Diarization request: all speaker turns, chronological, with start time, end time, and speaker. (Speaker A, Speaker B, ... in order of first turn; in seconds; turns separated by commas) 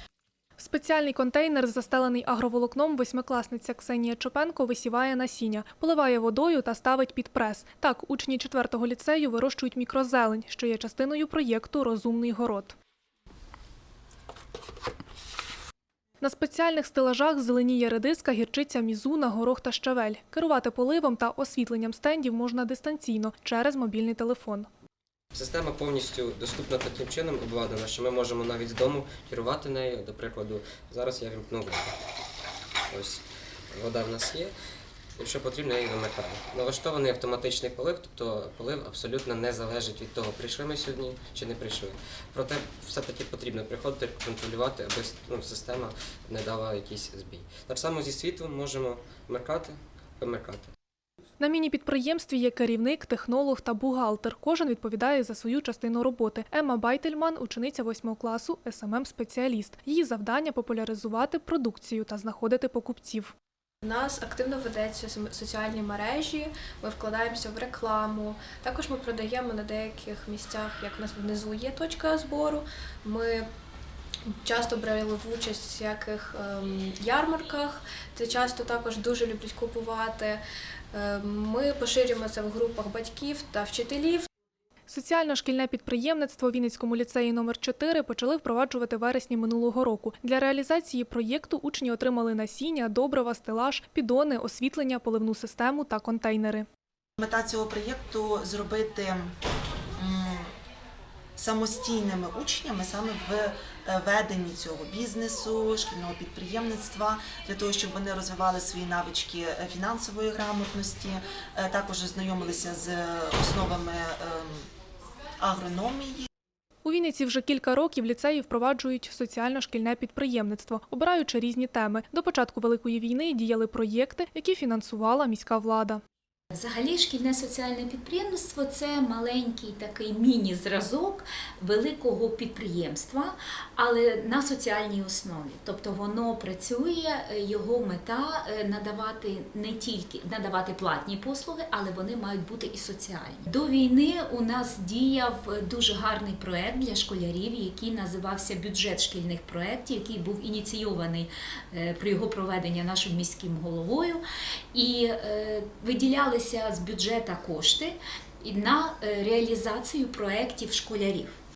Speaker A: 0.6-12.8, Speaker A: 16.2-24.7, Speaker B: 25.3-32.0, Speaker B: 32.9-34.5, Speaker B: 35.2-50.7, Speaker A: 51.4-63.3, Speaker C: 63.8-73.5, Speaker C: 74.3-80.4, Speaker C: 80.9-84.3, Speaker A: 84.9-96.7, Speaker D: 97.2-99.3, Speaker D: 100.0-100.5, Speaker D: 101.4-114.7, Speaker D: 115.4-116.3, Speaker A: 116.8-126.0, Speaker E: 126.5-154.2, Speaker E: 154.7-161.3